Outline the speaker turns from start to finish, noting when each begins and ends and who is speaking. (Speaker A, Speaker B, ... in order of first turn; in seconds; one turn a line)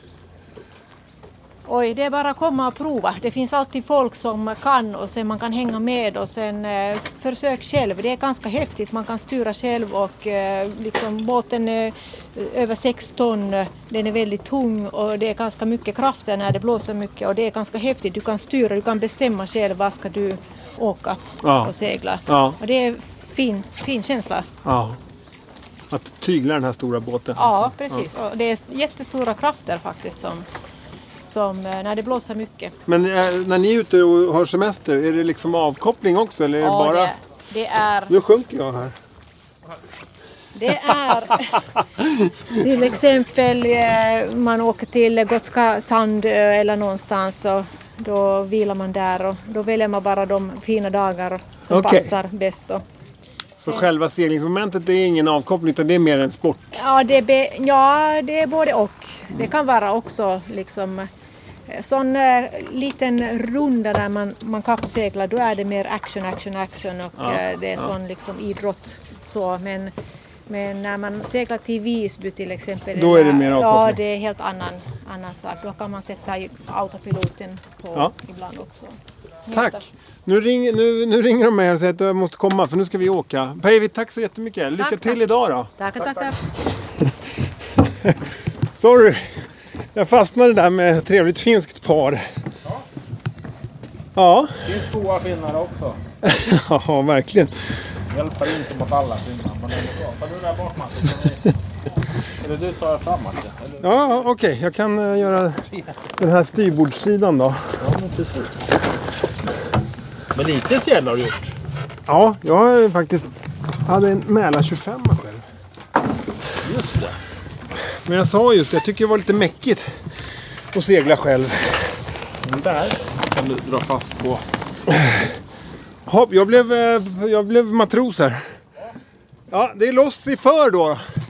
Speaker A: 1.7-24.5
Speaker B: 21.4-21.7
Speaker B: 22.3-22.6
Speaker B: 24.6-25.0
Speaker B: 25.9-28.0
Speaker A: 27.4-30.5
Speaker A: 31.2-32.7
Speaker B: 32.9-37.1
Speaker A: 36.6-38.1
Speaker B: 38.1-39.0
Speaker A: 40.5-41.6
Speaker A: 42.5-52.8
Speaker B: 51.7-52.1
Speaker B: 53.6-56.8
Speaker A: 56.7-61.1
Speaker A: 61.7-69.9
Speaker B: 67.2-67.9
Speaker A: 70.5-79.8
Speaker B: 73.0-74.0
Speaker B: 79.5-85.7
Speaker A: 84.8-85.2
Speaker A: 85.8-86.4
Speaker B: 87.8-88.2
Speaker B: 88.8-89.3
Speaker B: 89.9-92.2
Speaker B: 94.2-94.6
Speaker C: 94.6-96.0
Speaker B: 96.2-97.5
Speaker C: 98.1-101.5
Speaker C: 102.4-104.0
Speaker B: 103.8-105.6
Speaker B: 106.2-107.7
Speaker C: 107.8-108.7
Speaker C: 110.3-111.6
Speaker B: 112.1-113.3
Speaker B: 113.8-115.4
Speaker C: 116.6-117.2
Speaker B: 118.1-119.9
Speaker B: 120.7-121.9
Speaker C: 122.5-124.5
Speaker B: 126.1-128.5
Speaker B: 129.5-131.0